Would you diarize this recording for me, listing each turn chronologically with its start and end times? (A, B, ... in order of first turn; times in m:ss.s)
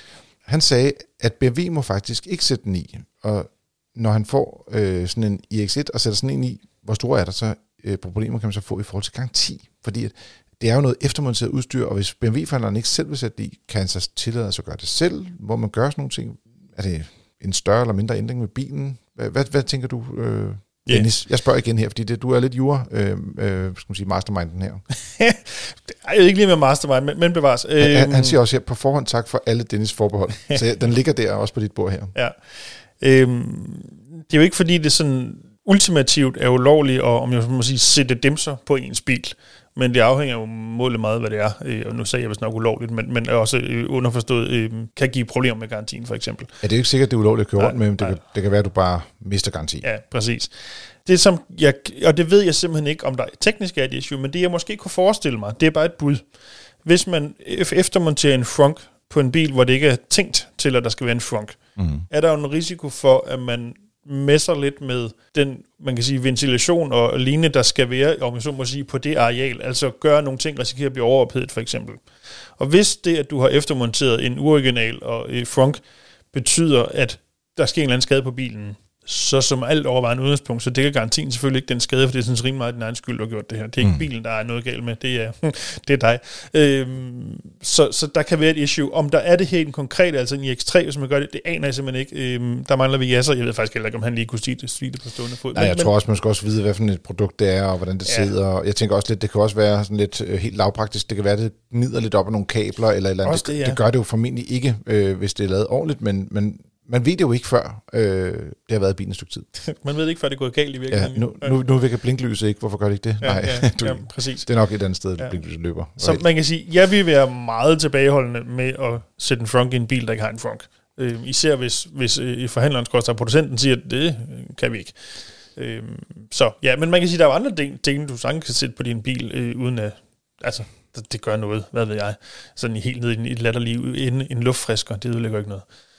0:00.4-0:24.8 A
0:25.0-0:28.4 B
0:27.8-0:32.1 A
0:32.1-0:46.5 B
0:46.6-0:49.8 A
0:47.6-0:48.2 B
0:49.8-0:56.3 B
0:56.8-1:35.9 B
1:01.8-1:02.0 A
1:23.8-1:24.0 A
1:35.5-1:49.5 A
1:38.0-1:38.3 B
1:43.2-1:43.8 B
1:49.6-1:51.6 B
1:50.9-1:56.2 A
1:53.2-1:54.5 B
1:56.0-2:15.7 B